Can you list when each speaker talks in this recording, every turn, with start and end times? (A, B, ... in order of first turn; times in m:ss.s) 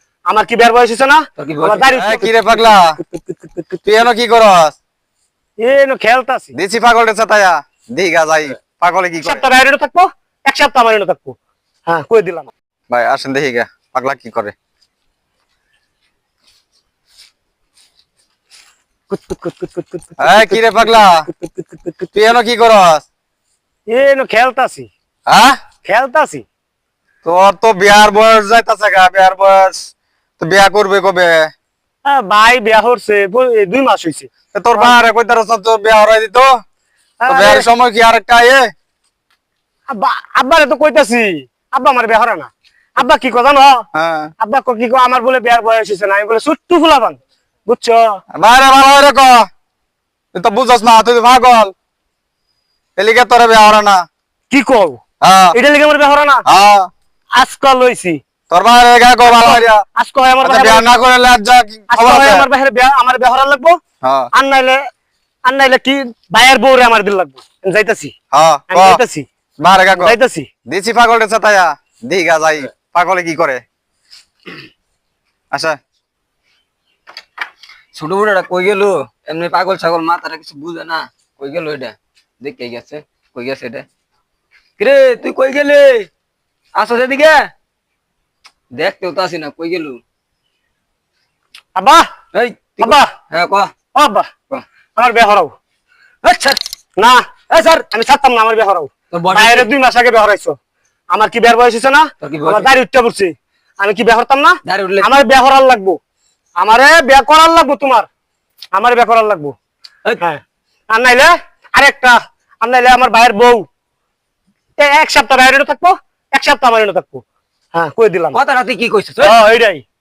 0:00.3-0:03.6 A
0:01.4-0:01.9 B
0:01.9-0:03.0 C
0:03.8-0:04.8 C
0:05.6-0:06.6 A
0:06.6-0:09.4 C
0:09.2-0:11.4 A
0:11.9-0:12.5 A
0:12.9-0:14.5 C
0:19.1-0:22.1 A
0:20.2-0:21.2 C
0:22.1-0:23.1 C
0:23.9-0:24.9 A
0:25.3-0:25.6 C
0:25.8-0:26.4 A
0:27.2-0:31.5 C
0:32.1-0:35.0 A
0:34.5-0:36.5 C
0:37.2-0:37.7 A
0:37.3-0:38.7 C
0:39.9-0:43.9 A
0:43.9-0:44.3 C
0:44.4-0:48.2 A
0:48.4-0:49.5 C
0:50.3-0:51.7 C
0:53.0-0:54.0 C
0:54.5-0:55.0 A
0:55.2-0:55.6 C
0:55.5-0:56.4 A
0:56.5-0:56.9 C
0:57.4-0:58.2 A
0:58.5-0:59.8 C
0:59.2-1:00.9 A
1:00.4-1:02.5 C
1:01.9-1:03.8 A
1:04.0-1:04.3 C
1:04.4-1:04.8 A
1:05.5-1:08.1 A
1:08.3-1:09.0 C
1:08.7-1:09.3 A
1:09.6-1:10.2 C
1:10.0-1:10.5 A
1:10.7-1:13.6 C
1:15.5-1:15.8 C
1:17.9-1:23.8 B
1:24.8-1:26.1 B
1:26.8-1:27.5 B
1:28.8-1:30.0 B
1:31.8-1:32.1 A
1:32.3-1:33.7 B
1:32.8-1:33.1 A
1:34.0-1:34.3 A
1:35.0-1:35.5 A
1:36.2-1:36.6 B
1:37.0-1:37.3 A
1:37.5-1:37.8 B
1:37.9-1:40.6 A
1:39.1-1:39.7 B
1:41.1-1:46.0 A
1:42.2-1:42.7 B
1:44.6-1:45.1 B
1:46.6-1:48.1 A
1:48.7-1:49.6 A
1:50.2-1:53.7 A
1:54.8-1:57.2 A
1:57.7-1:58.4 A
1:58.3-1:59.4 B
1:59.2-1:59.8 A